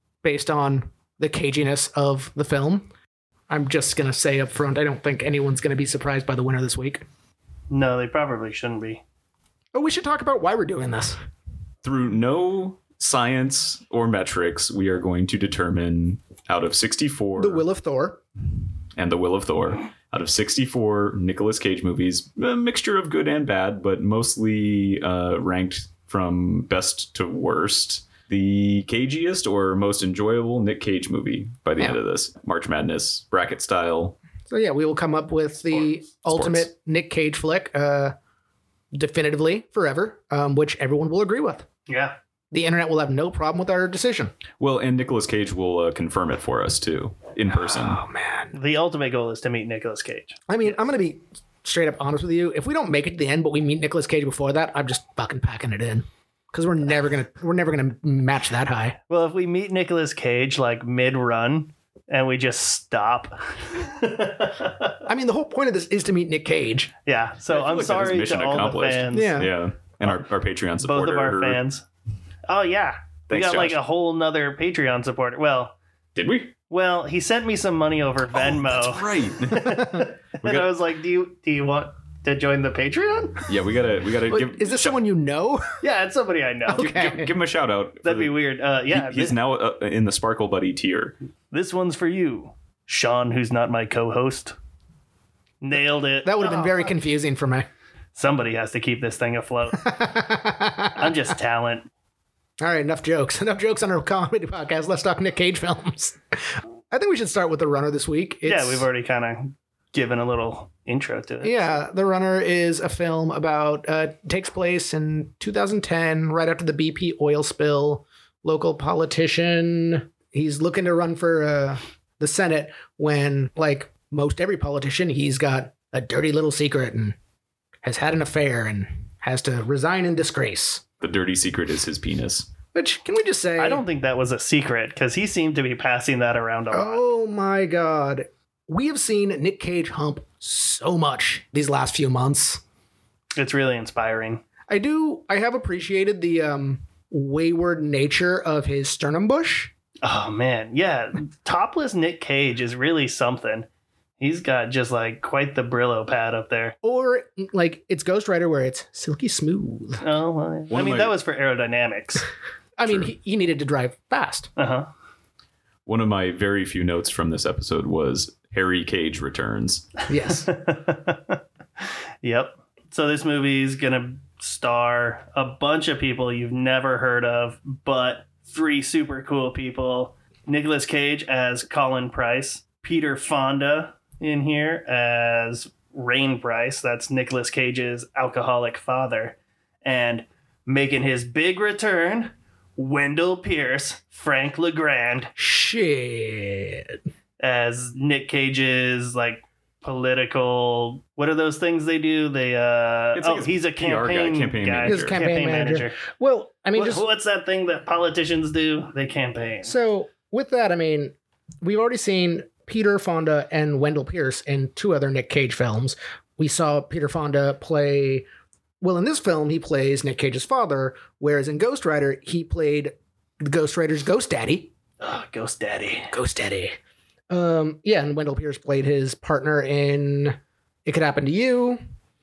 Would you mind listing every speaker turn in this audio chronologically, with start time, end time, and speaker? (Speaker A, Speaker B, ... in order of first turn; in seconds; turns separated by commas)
Speaker A: 0.2-2.9, Speaker A: 3.5-7.0, Speaker B: 7.7-9.0, Speaker A: 9.7-11.2, Speaker C: 11.8-17.6, Speaker A: 17.4-18.2, Speaker C: 19.0-34.2, Speaker A: 34.5-38.1, Speaker C: 36.3-36.7, Speaker A: 38.9-41.7, Speaker B: 41.9-42.2, Speaker A: 42.5-44.3, Speaker C: 44.6-48.0, Speaker A: 47.5-48.5, Speaker B: 48.5-50.4, Speaker A: 50.5-59.0, Speaker B: 59.1-65.0, Speaker A: 65.0-66.9, Speaker B: 67.0-69.4, Speaker C: 67.5-71.6, Speaker A: 69.1-69.5, Speaker B: 70.8-71.8, Speaker B: 72.5-75.7, Speaker C: 73.3-73.8, Speaker C: 76.2-76.5, Speaker B: 76.7-83.5, Speaker C: 78.3-79.9, Speaker A: 79.6-80.0, Speaker C: 80.4-80.7, Speaker C: 83.5-85.0, Speaker A: 84.3-85.7, Speaker B: 85.8-86.9, Speaker A: 86.7-87.3, Speaker C: 86.8-88.3, Speaker B: 88.0-89.3, Speaker C: 88.9-91.2, Speaker B: 91.5-94.5, Speaker B: 95.6-96.8, Speaker A: 96.2-97.7, Speaker B: 98.2-100.0, Speaker A: 99.8-101.2, Speaker B: 101.0-101.9, Speaker A: 102.6-108.9, Speaker B: 108.5-111.7, Speaker A: 111.4-127.2, Speaker A: 127.8-130.8, Speaker C: 131.0-132.5, Speaker A: 132.7-133.8, Speaker B: 133.6-137.0, Speaker A: 136.7-142.6, Speaker B: 143.3-144.4, Speaker A: 144.7-149.7, Speaker B: 150.0-153.7, Speaker B: 154.2-156.8, Speaker A: 156.8-160.0, Speaker B: 160.0-162.3, Speaker C: 160.7-161.2, Speaker A: 162.8-164.5, Speaker B: 164.6-164.9, Speaker C: 165.8-169.9, Speaker A: 170.1-170.5, Speaker B: 170.3-195.3, Speaker A: 195.3-197.0, Speaker B: 197.4-206.0, Speaker C: 203.1-205.2, Speaker A: 204.8-207.0, Speaker B: 206.7-209.7, Speaker A: 209.6-218.2, Speaker A: 218.8-224.7, Speaker B: 225.0-226.1, Speaker A: 226.1-226.8, Speaker A: 227.3-231.8